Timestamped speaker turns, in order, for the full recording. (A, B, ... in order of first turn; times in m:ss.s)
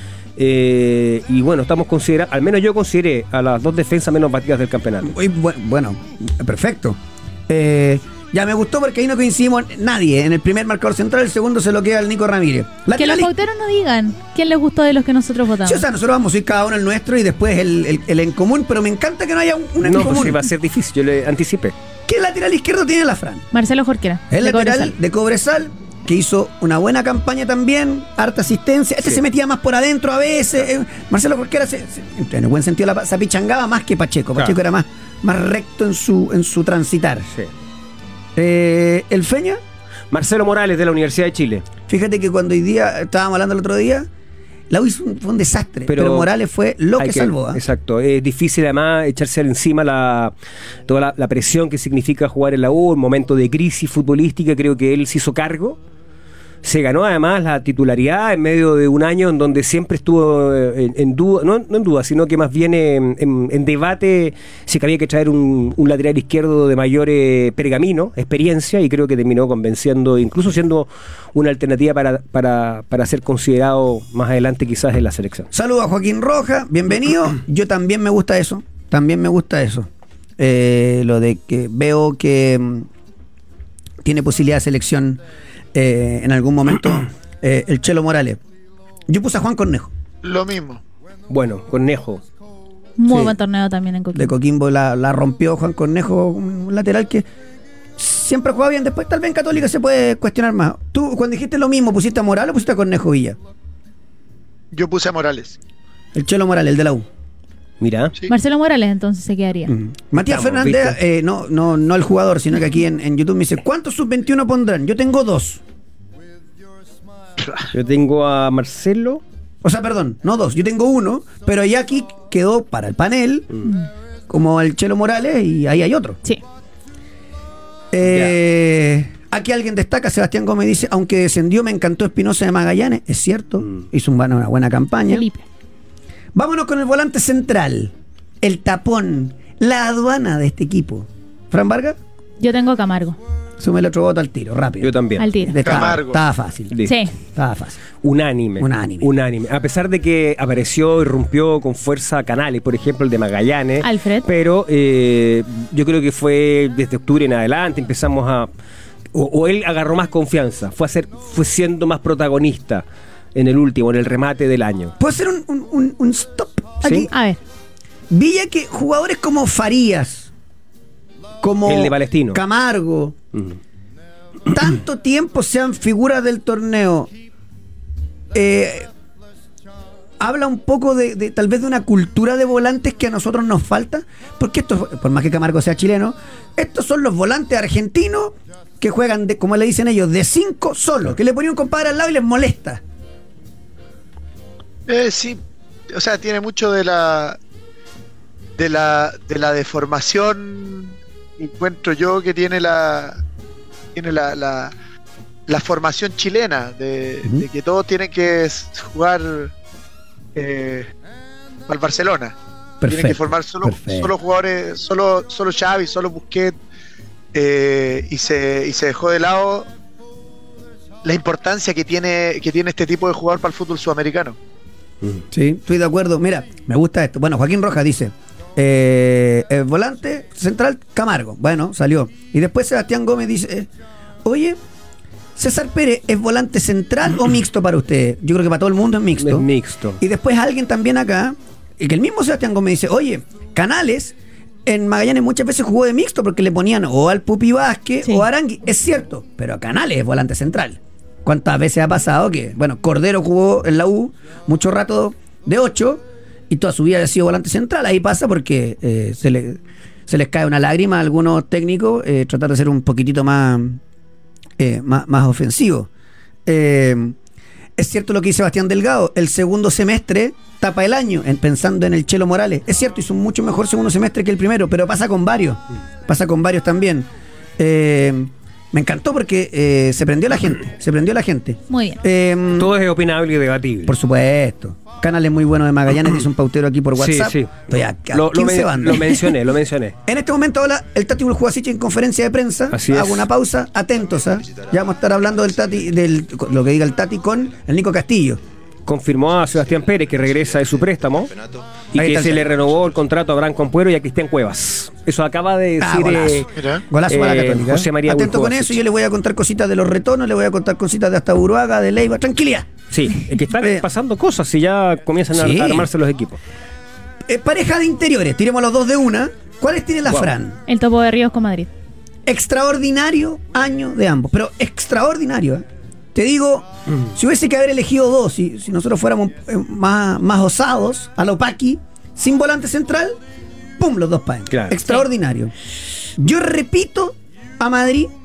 0:00.4-0:05.1 A
0:05.0-0:13.3 B
0:13.0-0:15.8 C
0:15.6-0:20.4 B
0:19.8-0:21.8 A
0:22.1-0:23.5 B
0:23.5-0:24.9 C
0:24.3-0:37.3 B
0:38.4-0:39.6 B
0:40.1-0:41.6 A
0:41.9-0:44.1 B
0:44.7-0:47.6 B
0:45.9-0:46.3 A
0:47.0-0:50.3 A
0:50.9-0:55.8 A
0:56.6-1:15.5 A
1:15.5-1:22.9 B
1:24.0-1:25.2 B
1:25.7-1:28.4 B
1:29.1-1:29.9 B
1:30.2-1:30.8 D
1:31.3-1:32.2 A
1:33.0-1:34.3 C
1:33.1-1:33.4 B
1:34.1-1:37.2 B
1:38.0-1:43.4 B
1:44.7-1:45.6 D
1:46.1-1:47.1 B
1:47.8-1:48.2 A
1:48.3-1:49.8 C
1:49.7-1:55.6 B
1:50.2-1:51.0 A
1:57.7-1:59.2 A
1:59.6-2:03.5 B
2:04.3-2:06.2 B
2:07.9-2:15.3 B
2:08.0-2:08.3 A
2:15.1-2:15.4 C
2:16.4-2:22.0 B
2:22.4-2:23.2 C
2:23.6-2:27.8 B
2:24.8-2:25.9 A
2:25.2-2:25.6 C
2:25.6-2:26.2 D
2:26.7-2:27.1 A
2:26.8-2:27.1 C
2:28.0-2:38.5 A
2:28.6-2:29.1 B
2:33.8-2:34.3 C
2:39.1-2:42.8 A
2:43.4-2:45.0 A
2:45.0-2:47.1 B
2:46.9-2:47.4 C
2:48.1-2:50.3 B
2:51.4-2:53.2 B
2:51.7-2:52.4 A
2:54.5-2:57.1 B
2:58.3-2:58.9 B
3:00.2-3:12.8 B
3:14.9-3:15.4 D
3:15.9-3:17.4 D
3:18.6-3:23.2 D
3:24.0-3:24.7 D
3:25.5-3:29.5 D
3:30.4-3:30.9 D
3:31.7-3:32.4 D
3:32.8-3:34.1 B
3:32.9-3:36.6 D
3:37.3-3:39.7 D
3:41.0-3:44.4 D
3:45.3-3:53.7 B
3:54.2-3:54.6 B
3:55.4-3:59.5 B
3:59.2-4:00.0 A
4:00.0-4:04.2 B
4:04.7-4:23.8 B
4:24.6-4:25.9 B
4:26.5-4:27.2 B
4:27.8-4:42.7 B
4:41.7-4:42.0 C
4:42.6-4:44.0 A
4:43.9-4:49.4 B
4:47.0-4:50.0 A
4:50.1-4:58.4 B
4:52.7-4:53.3 A
4:58.9-5:01.4 A
5:01.9-5:06.5 A
5:02.0-5:02.6 B
5:05.8-5:12.7 B
5:06.6-5:06.8 D
5:07.1-5:08.8 A
5:12.9-5:16.4 A
5:13.6-5:13.8 B
5:15.3-5:15.9 B
5:17.3-5:20.6 B
5:20.7-5:21.7 C
5:22.3-5:33.2 B
5:33.8-5:35.5 B
5:34.5-5:34.8 A
5:36.2-5:38.1 B